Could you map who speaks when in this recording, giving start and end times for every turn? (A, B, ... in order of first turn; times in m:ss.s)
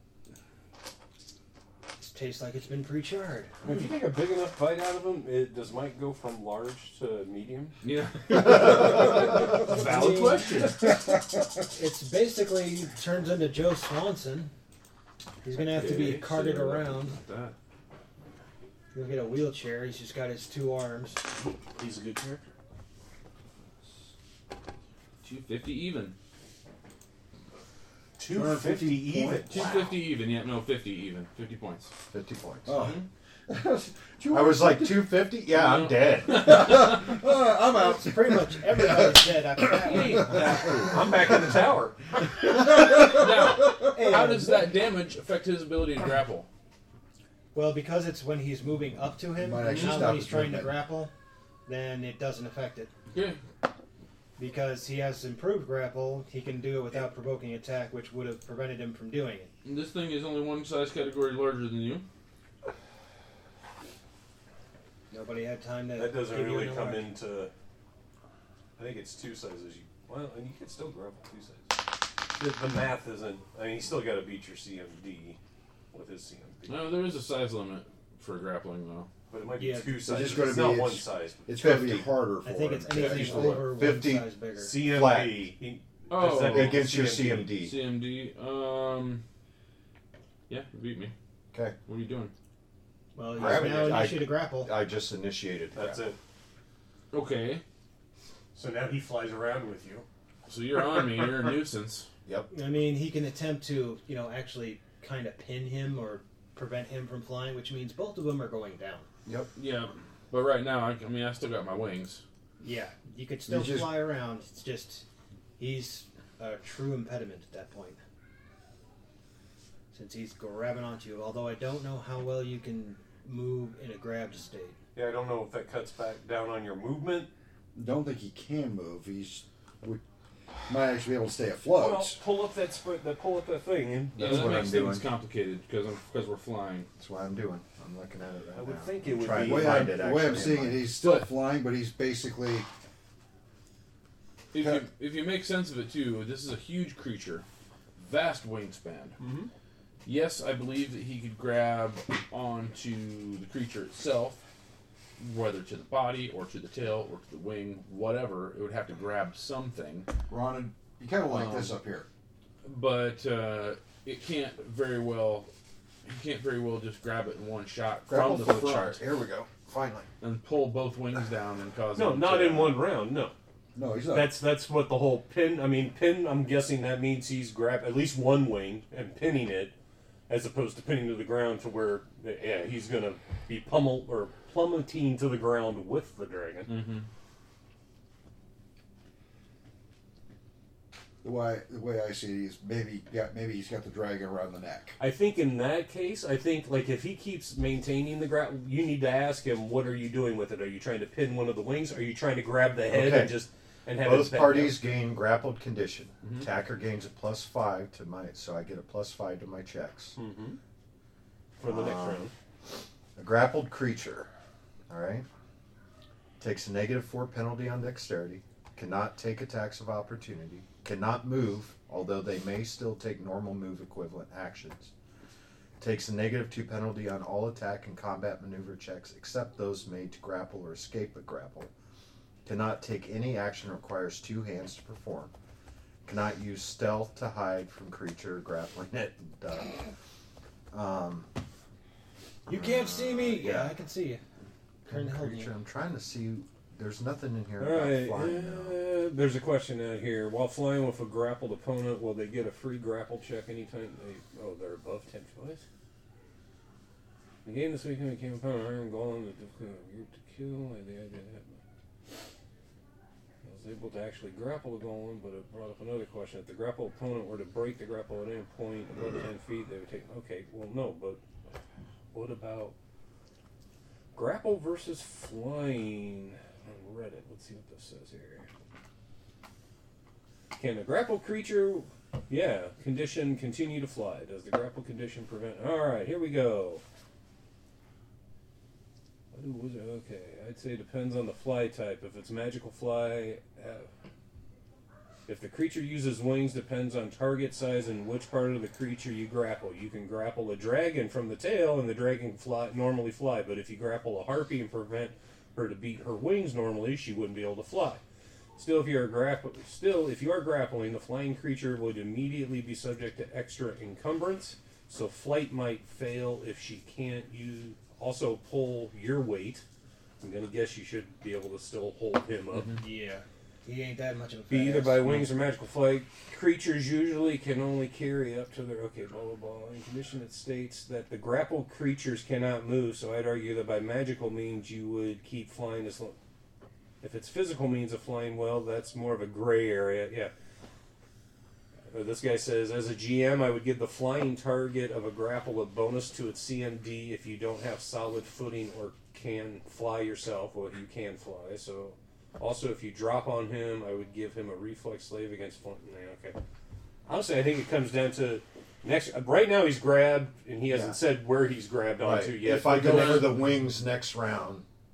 0:02.0-0:03.5 A
0:03.6-0:07.8 B
0:07.8-0:10.8 C
0:09.7-0:10.6 A
0:11.7-0:14.5 A
0:15.4-0:17.2 A
0:15.6-0:17.6 C
0:18.9-0:21.2 A
0:21.8-0:22.4 B
0:25.2-0:26.2 C
0:28.2-0:29.9 B
0:28.3-0:29.5 D
0:29.5-0:31.9 C
0:32.1-0:32.8 E
0:32.7-0:35.1 D
0:32.8-0:33.0 C
0:34.3-0:36.9 E
0:35.5-0:37.0 C
0:36.3-0:39.3 D
0:37.7-0:40.5 A
0:39.8-0:41.1 C
0:40.3-0:42.0 B
0:40.6-0:40.9 D
0:42.8-0:46.5 C
0:43.9-0:44.7 A
0:47.5-0:51.1 A
0:49.4-0:50.8 D
0:49.6-0:50.1 C
0:51.7-0:52.9 A
0:53.1-0:53.4 C
0:54.4-0:59.5 A
0:59.6-1:02.0 C
1:05.1-1:07.1 A
1:06.0-1:07.5 B
1:08.8-1:11.8 B
1:12.3-1:15.4 B
1:15.9-1:17.0 B
1:16.7-1:19.1 C
1:19.3-1:21.4 B
1:19.6-1:20.3 A
1:20.0-1:23.6 D
1:21.6-1:22.1 E
1:22.4-1:24.7 A
1:23.0-1:23.6 C
1:23.5-1:25.5 E
1:24.6-1:27.5 B
1:26.1-1:26.9 C
1:26.4-1:27.8 E
1:27.5-1:29.2 C
1:30.5-1:31.1 C
1:31.9-1:32.3 C
1:33.2-1:34.7 A
1:33.4-1:36.0 E
1:33.4-1:33.9 B
1:35.8-1:36.2 B
1:37.1-1:37.6 C
1:38.5-1:40.1 B
1:40.5-1:42.1 C
1:42.5-1:49.1 A
1:49.6-1:52.2 C
1:52.6-1:55.0 A
1:53.5-1:54.0 D
1:55.6-1:58.0 A
1:59.9-2:04.8 A
2:05.0-2:07.3 B
2:07.8-2:10.0 D
2:10.7-2:12.2 D
2:11.7-2:14.7 B
2:14.2-2:15.1 E
2:14.2-2:16.9 C
2:17.0-2:20.9 E
2:18.6-2:20.0 B
2:19.2-2:22.7 D
2:21.0-2:21.3 C
2:24.5-2:27.4 C
2:24.6-2:24.9 D
2:28.0-2:29.2 C
2:29.2-2:29.5 B
2:30.0-2:34.4 C
2:35.2-2:40.1 C
2:40.3-2:42.1 D
2:41.3-2:41.8 C
2:42.6-2:45.5 C
2:46.0-2:49.0 C
2:48.1-2:50.1 E
2:50.2-2:52.8 C
2:52.0-2:53.3 B
2:53.8-2:54.4 D
2:54.1-2:59.8 B
3:00.3-3:06.7 B
3:06.7-3:07.1 C
3:11.2-3:15.0 D
3:15.0-3:24.8 B
3:22.9-3:23.4 E
3:24.0-3:30.2 E
3:30.2-3:30.6 B
3:31.6-3:32.3 B
3:31.7-3:32.3 E
3:33.2-3:34.3 E
3:34.9-3:35.3 E
3:36.4-3:44.9 E
3:45.8-3:51.7 E
3:52.4-3:55.3 E
3:56.0-3:59.9 E
4:00.7-4:01.3 E
4:02.5-4:04.2 A
4:02.5-4:03.8 E
4:04.9-4:05.5 A
4:04.9-4:08.8 E
4:07.6-4:15.6 B
4:17.4-4:21.6 B
4:23.4-4:31.2 B
4:32.1-4:32.8 B
4:34.1-4:38.5 B
4:40.5-4:46.8 B
4:49.3-4:53.9 B
4:55.3-5:08.0 B
5:08.6-5:19.6 B
5:20.2-5:22.8 B
5:22.8-5:25.0 A
5:24.5-5:36.2 B
5:37.0-5:40.3 B
5:41.9-5:56.4 B
5:57.1-6:03.4 B
6:00.7-6:01.0 E
6:02.0-6:04.6 E
6:02.7-6:03.4 C